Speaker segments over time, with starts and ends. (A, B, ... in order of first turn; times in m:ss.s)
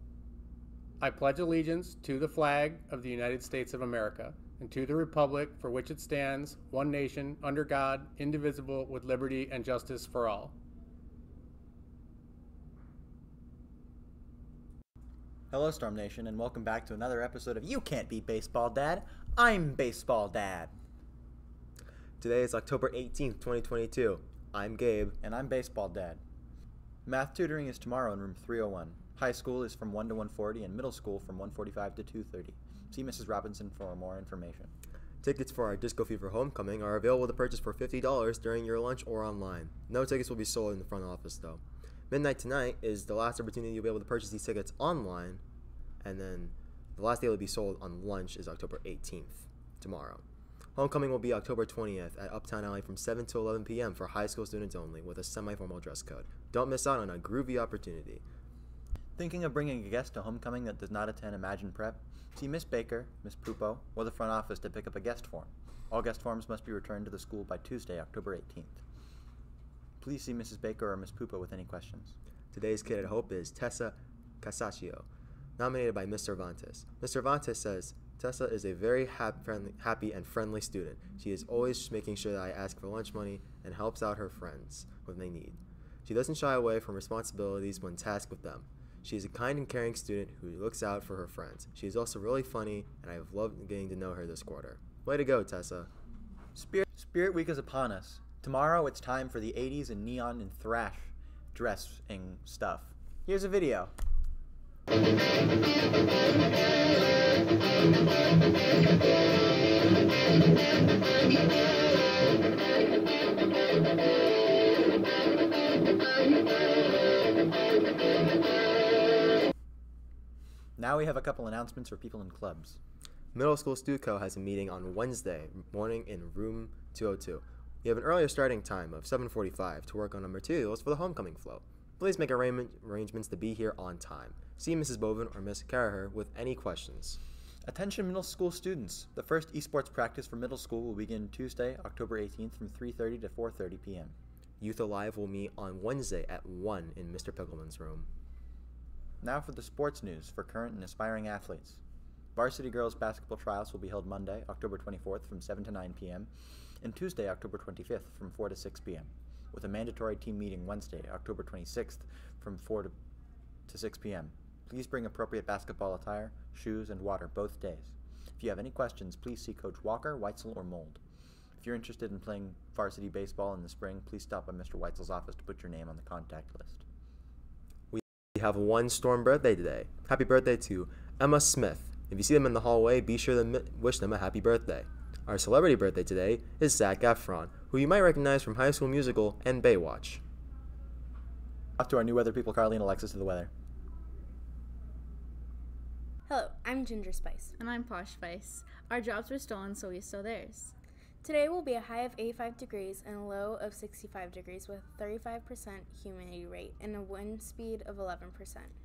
0:01.0-0:10.5 A
0:15.5-0:20.7 B
0:22.2-0:25.2 C
0:25.2-0:26.2 B
0:27.0-0:34.7 B
0:35.2-0:45.4 C
0:46.0-0:50.2 C
0:50.8-0:58.2 C
0:59.2-1:08.8 B
1:10.0-1:12.1 B
1:12.5-1:15.1 C
1:15.6-1:35.9 C
1:36.6-1:43.9 B
2:00.8-2:02.8 B
2:03.3-2:17.2 C
2:17.6-2:24.1 B
2:24.6-2:28.1 C
2:29.2-2:31.8 B
2:32.3-2:42.9 B
2:43.7-2:51.0 B
2:51.6-2:56.8 B
2:57.9-3:10.2 C
3:11.8-3:13.5 B
3:16.3-3:17.5 D
3:17.6-3:20.7 E
3:21.2-3:28.7 D